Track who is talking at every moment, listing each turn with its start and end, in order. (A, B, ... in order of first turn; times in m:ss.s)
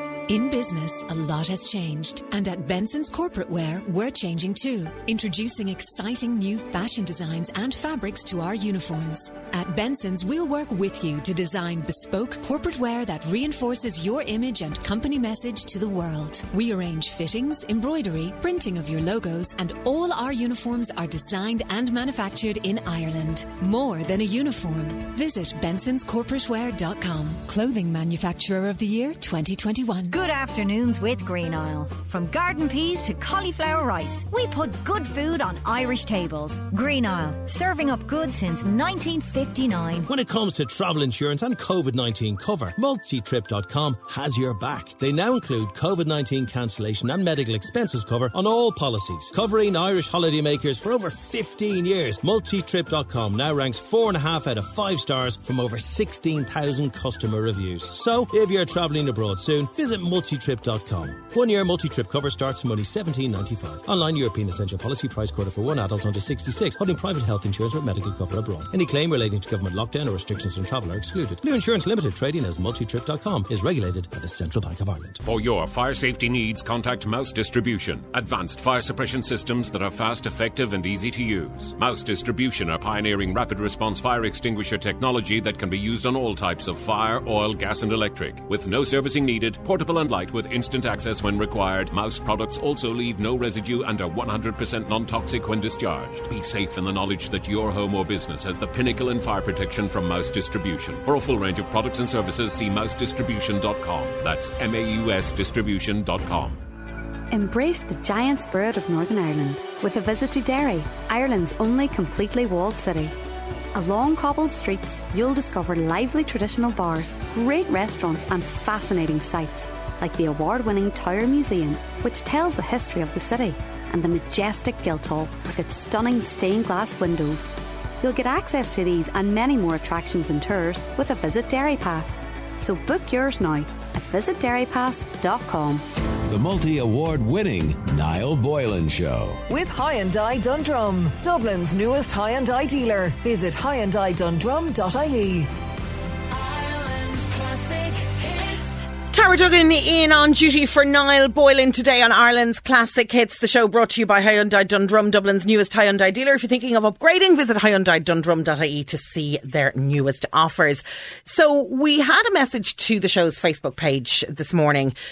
0:00.3-0:30.2 A
0:30.1-0:40.1 B
0:40.1-1:15.2 C
1:15.2-1:46.6 D
1:47.3-1:53.1 E
1:53.7-2:15.8 E
2:16.3-2:19.4 F
2:19.5-2:25.5 G
2:29.1-2:44.9 H